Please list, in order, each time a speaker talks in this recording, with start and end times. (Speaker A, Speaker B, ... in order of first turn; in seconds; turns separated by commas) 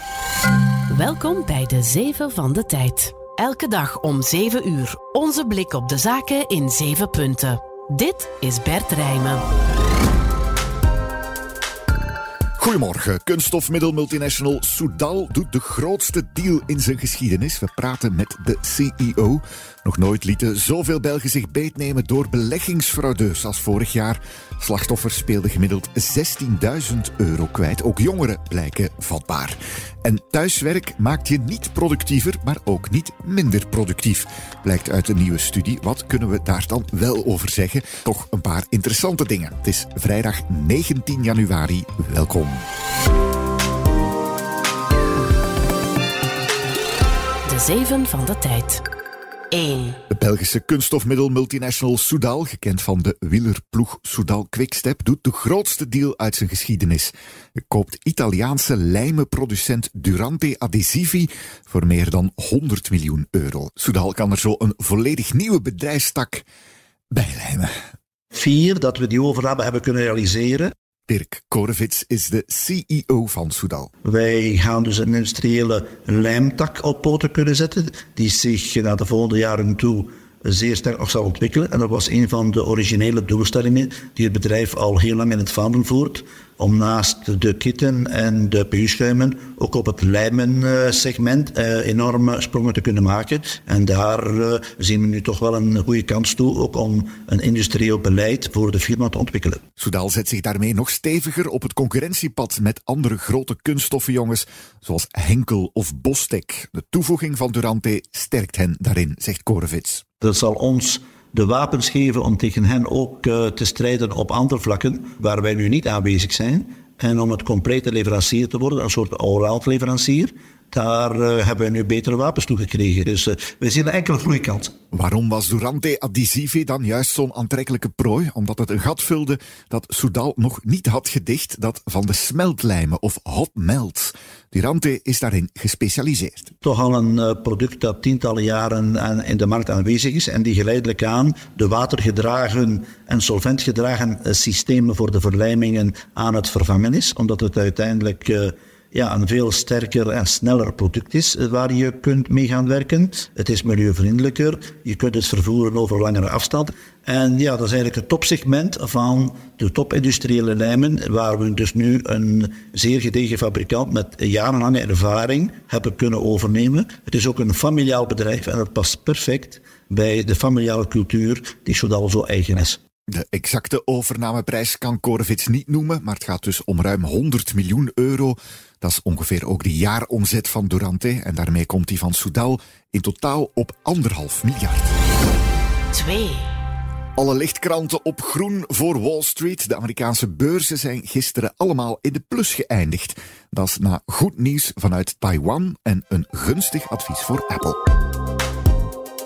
Speaker A: 0.9-9.4, Speaker B: 12.6-42.6, Speaker A: 47.5-48.8, Speaker A: 49.5-50.0, Speaker B: 50.1-66.5, Speaker B: 67.1-67.7, Speaker C: 68.3-70.7, Speaker B: 71.1-73.9, Speaker C: 74.0-99.6, Speaker B: 99.8-110.0, Speaker C: 110.2-124.7, Speaker B: 124.9-136.5, Speaker C: 136.6-172.8, Speaker B: 173.1-184.9, Speaker A: 185.9-186.5, Speaker B: 187.2-197.8